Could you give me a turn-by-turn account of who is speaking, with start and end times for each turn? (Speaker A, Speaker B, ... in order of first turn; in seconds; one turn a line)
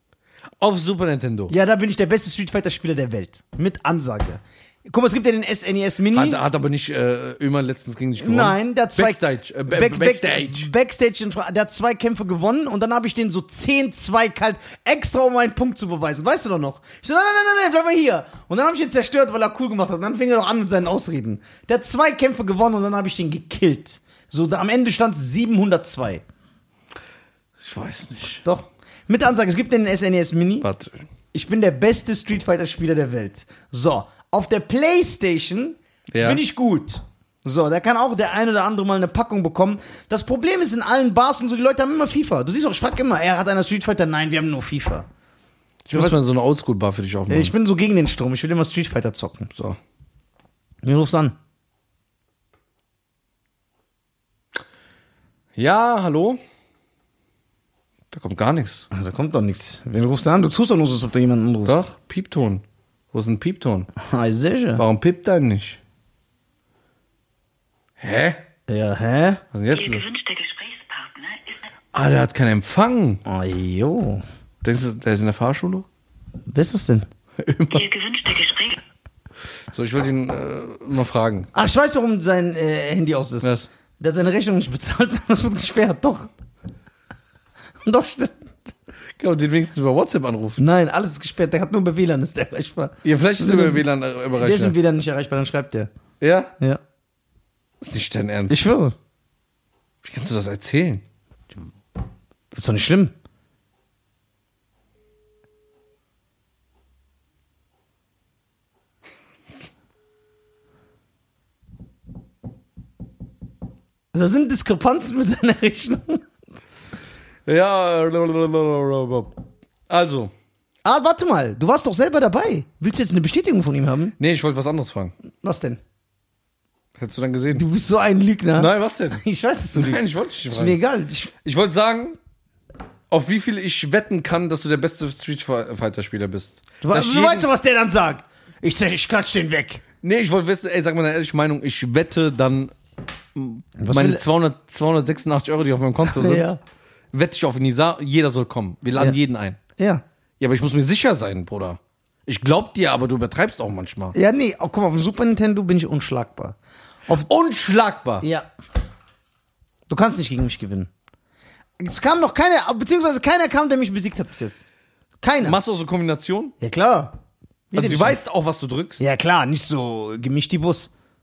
Speaker A: 0.6-1.5
Speaker B: 1.5-6.4
Speaker A: 6.1-10.7
Speaker B: 8.2-26.2
Speaker A: 27.6-28.4
Speaker B: 28.4-30.7
Speaker A: 30.6-31.0
Speaker B: 31.3-45.0
Speaker A: 36.1-36.4
Speaker A: 45.9-47.5
Speaker B: 45.9-46.2
Speaker B: 47.3-49.5
Speaker A: 49.5-49.8
Speaker B: 50.8-51.4
Speaker A: 55.5-56.4
Speaker A: 58.1-58.9
Speaker B: 58.9-61.9
Speaker A: 61.6-63.9
Speaker B: 64.0-64.8
Speaker A: 64.8-65.8
Speaker A: 68.0-68.4
Speaker B: 68.7-69.4
Speaker A: 69.5-70.0
Speaker C: 69.7-71.7
Speaker A: 71.9-73.2
Speaker B: 73.2-74.2
Speaker A: 74.6-75.8
Speaker B: 76.5-77.1
Speaker A: 77.4-77.9
Speaker C: 77.7-78.8
Speaker A: 79.7-81.5
Speaker B: 81.5-86.3
Speaker A: 83.4-83.7
Speaker B: 87.8-88.7
Speaker A: 89.2-90.6
Speaker B: 90.6-93.8
Speaker A: 93.0-94.8
Speaker B: 94.3-95.9
Speaker A: 96.2-96.5
Speaker A: 97.8-98.7
Speaker B: 98.5-98.9
Speaker A: 100.0-101.0
Speaker B: 102.5-103.1
Speaker B: 114.1-116.2
Speaker A: 117.5-119.3
Speaker A: 119.9-120.3
Speaker B: 120.8-124.1
Speaker A: 124.2-125.1
Speaker B: 125.4-125.8
Speaker A: 127.0-127.6
Speaker B: 127.5-131.3
Speaker A: 128.5-129.2
Speaker A: 129.7-130.8
Speaker A: 131.4-132.2
Speaker A: 133.1-137.5
Speaker B: 136.8-139.8
Speaker A: 140.0-142.7
Speaker A: 143.3-146.5
Speaker B: 143.8-144.2
Speaker B: 146.0-146.6
Speaker A: 147.1-149.6
Speaker B: 149.8-150.0
Speaker A: 150.4-154.1
Speaker B: 154.1-156.6
Speaker A: 157.3-158.2
Speaker B: 158.2-158.5
Speaker B: 159.9-160.9
Speaker B: 161.8-164.6
Speaker B: 165.2-165.6
Speaker A: 165.4-166.5
Speaker B: 166.6-167.2
Speaker B: 167.7-168.2
Speaker A: 167.7-169.0
Speaker B: 169.0-170.9